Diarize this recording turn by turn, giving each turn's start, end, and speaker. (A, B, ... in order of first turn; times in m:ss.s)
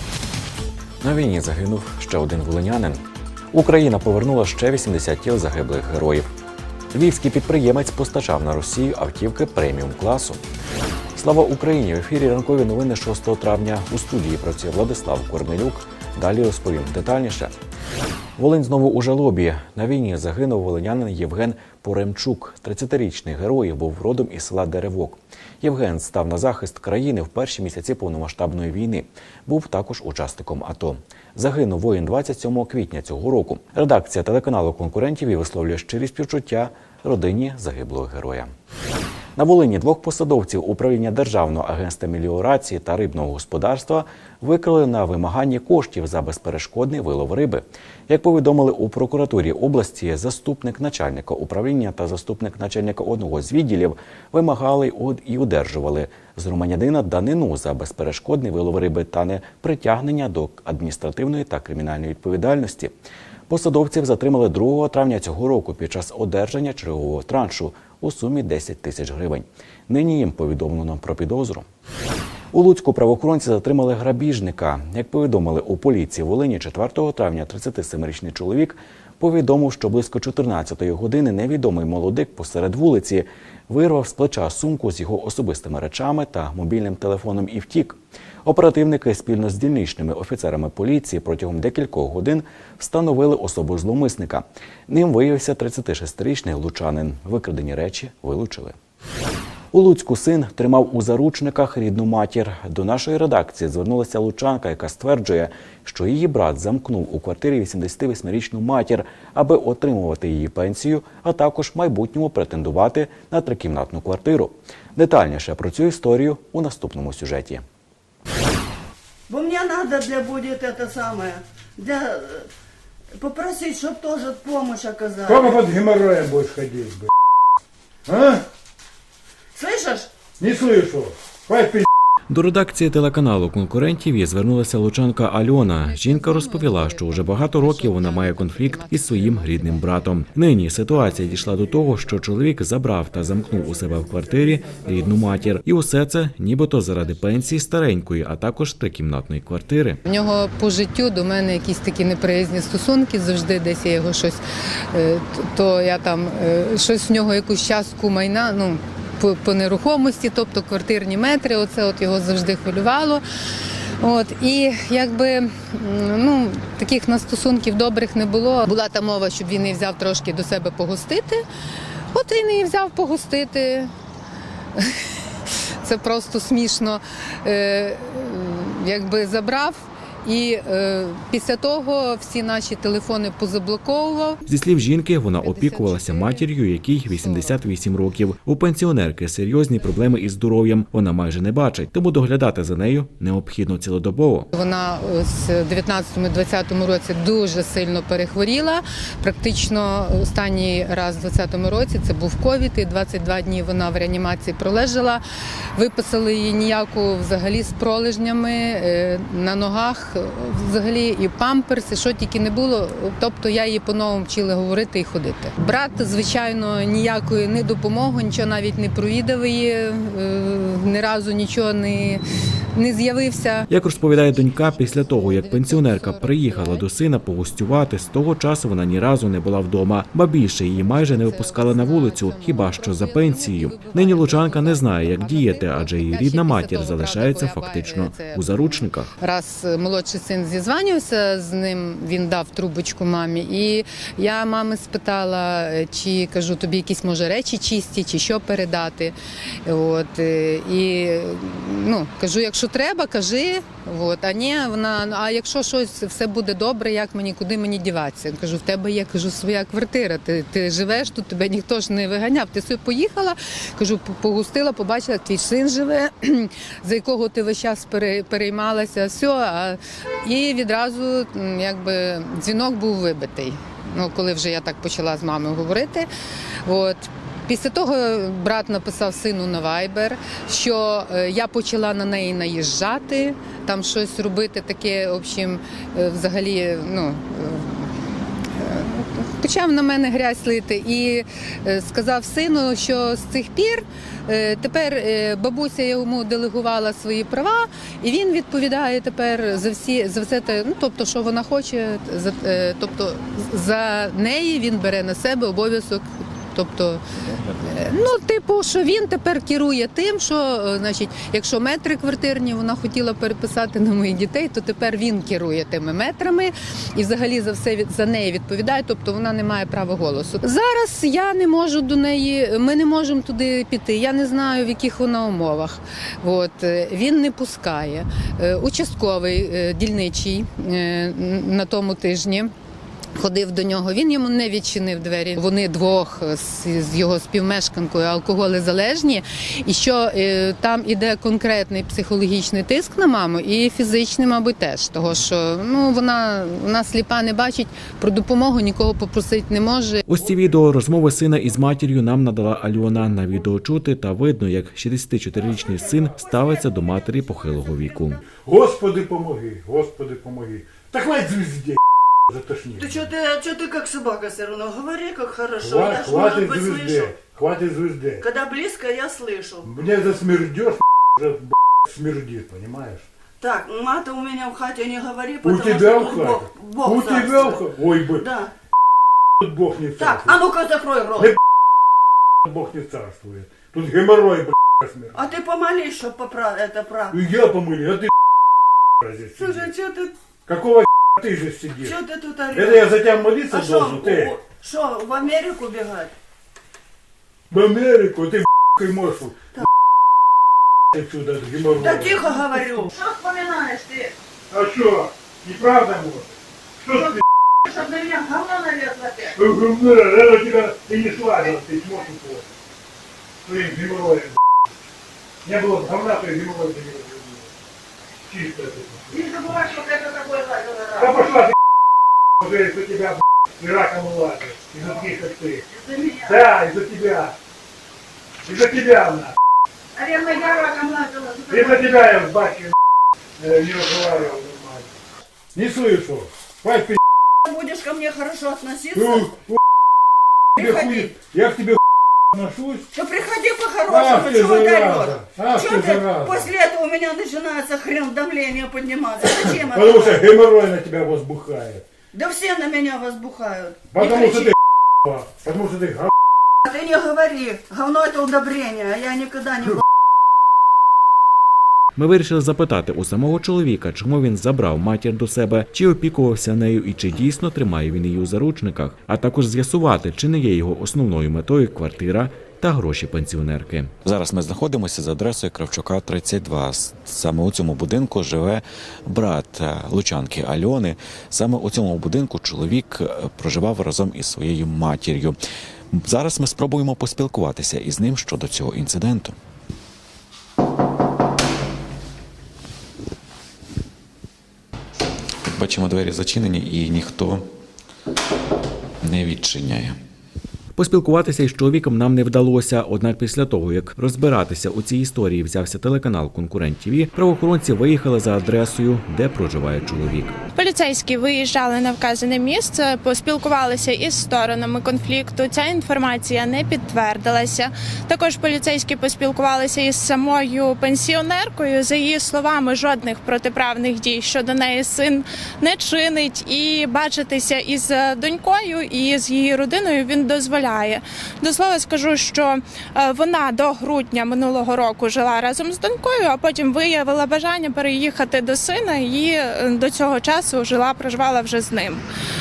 0:01.0-0:06.3 A
0:06.9-0:10.4 A
0:11.2-0:17.5 A
0:18.4-0:38.5 A
0:39.4-1:02.9 A
1:03.5-1:11.7 A
1:12.5-1:38.8 A
1:39.7-1:57.6 A
1:59.3-2:02.5 B
2:03.2-2:05.7 B
2:05.2-2:07.1 C
2:08.1-2:08.4 C
2:09.5-2:10.1 B
2:10.4-2:11.9 C
2:12.3-2:30.0 A
2:15.8-2:19.8 D
2:30.0-2:43.2 D
2:44.0-2:51.4 D
2:52.1-2:53.9 D
2:55.8-3:04.4 D
3:04.5-3:14.5 A
3:05.4-3:06.5 D
3:07.0-3:07.6 D
3:14.5-3:25.2 D
3:25.8-3:42.2 D
3:42.8-3:46.9 D
3:43.7-3:59.1 A
3:50.8-4:09.2 D
4:09.7-4:36.1 D
4:36.6-4:47.9 D
4:48.6-5:07.0 D
5:07.2-5:07.7 E
5:07.6-5:32.5 D
5:33.2-5:50.0 D
5:50.1-5:58.2 A
5:58.4-6:01.8 C
6:02.3-6:03.1 C
6:02.8-6:07.2 B
6:05.6-6:08.2 C
6:08.2-6:09.7 B
6:09.6-6:13.0 C
6:13.4-6:18.5 B
6:15.4-6:18.3 C
6:19.4-6:20.4 C
6:20.0-6:21.4 B
6:22.4-6:25.2 C
6:25.1-6:27.2 B
6:27.1-6:28.1 C
6:29.0-6:29.7 C
6:29.4-6:30.1 B
6:30.5-6:32.0 C
6:31.8-6:36.1 B
6:32.5-6:34.4 C
6:37.5-6:39.4 C
6:40.9-6:42.9 C
6:41.7-6:44.1 B
6:44.5-6:46.3 C
6:46.8-6:47.2 C
6:47.8-6:49.3 B
6:49.4-6:52.4 C
6:53.5-6:54.4 C
6:55.4-6:57.4 C
6:58.3-6:59.1 C
7:00.3-7:01.2 B
7:01.0-7:01.5 C
7:02.4-7:05.6 C
7:05.7-7:06.5 B
7:06.3-7:07.3 C
7:08.4-7:09.3 C
7:10.0-7:12.0 B
7:11.5-7:12.7 C
7:13.4-7:14.9 C
7:15.5-7:17.0 C
7:17.5-7:19.3 B
7:18.9-7:19.6 C
7:20.6-7:21.8 C
7:20.6-7:21.2 B
7:22.3-7:22.9 C
7:22.9-7:30.3 B
7:23.9-7:26.5 C
7:29.2-7:31.8 C
7:32.1-7:34.6 B
7:33.9-7:36.1 C
7:36.7-7:39.8 B
7:42.0-7:53.9 A
7:54.0-8:05.4 E
8:05.9-8:09.4 E
8:15.5-8:17.5 E
8:19.0-8:20.0 E
8:20.8-8:30.4 A
8:30.6-9:02.0 F